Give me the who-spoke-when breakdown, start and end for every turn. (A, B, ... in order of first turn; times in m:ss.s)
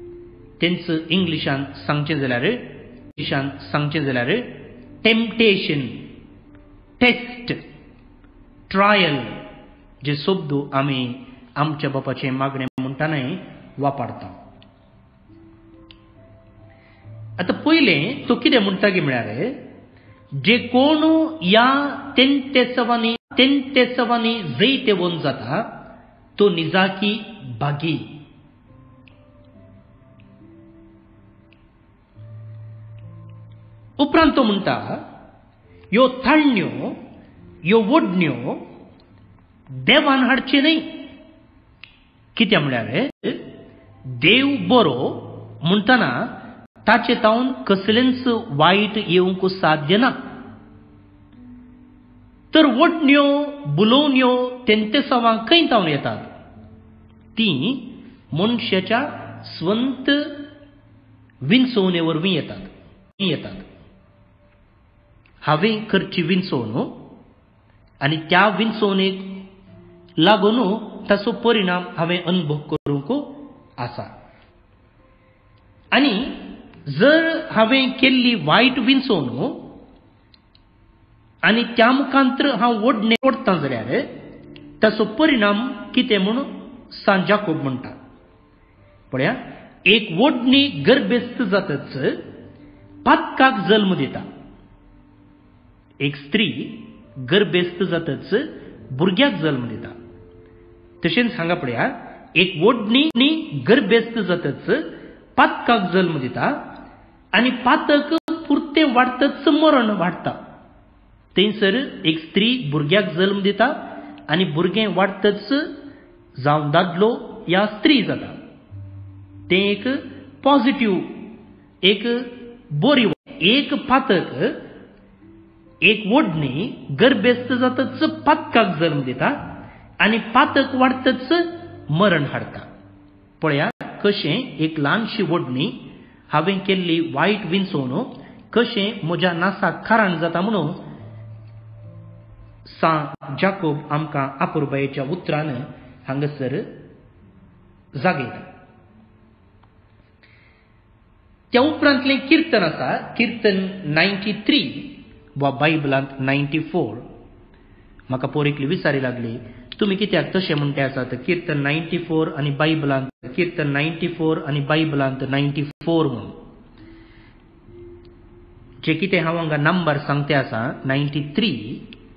0:00.6-0:06.1 A
0:07.0-0:07.6 A
0:08.7-0:09.4 A
0:10.0-0:14.4 A
0:17.4-0:19.6 A
0:20.3-0:25.7 A
0:26.4-0:28.1 A
0:34.0-0:35.0 A
0:35.9-0:37.0 A
0:37.6-0:38.6 A
0:39.7-0:40.9 A
0:42.3-0:43.4 A
0:44.0-0:50.1 A
0:52.5-0:56.3 A
0:57.4-1:00.4 A
1:01.4-1:03.6 A
1:05.4-1:07.0 A
1:08.0-1:09.5 A
1:10.2-1:14.1 A
1:15.9-1:19.7 A
1:21.4-1:24.1 A
1:24.8-1:27.9 A
1:29.1-1:32.2 A
1:33.0-1:34.2 A
1:36.0-1:39.9 A
1:41.0-1:44.8 A
1:45.4-1:46.6 A
1:47.3-1:50.4 A
1:51.3-1:53.7 A
1:54.3-1:55.7 A
1:56.4-1:58.4 A
1:59.5-2:01.3 A
2:01.8-2:04.6 A
2:05.8-2:09.4 A
2:10.0-2:12.7 A
2:13.4-2:20.8 A
2:22.7-2:26.8 A
2:28.0-2:28.5 A
2:31.5-2:37.0 A
2:38.1-2:46.4 A
2:48.8-2:51.9 A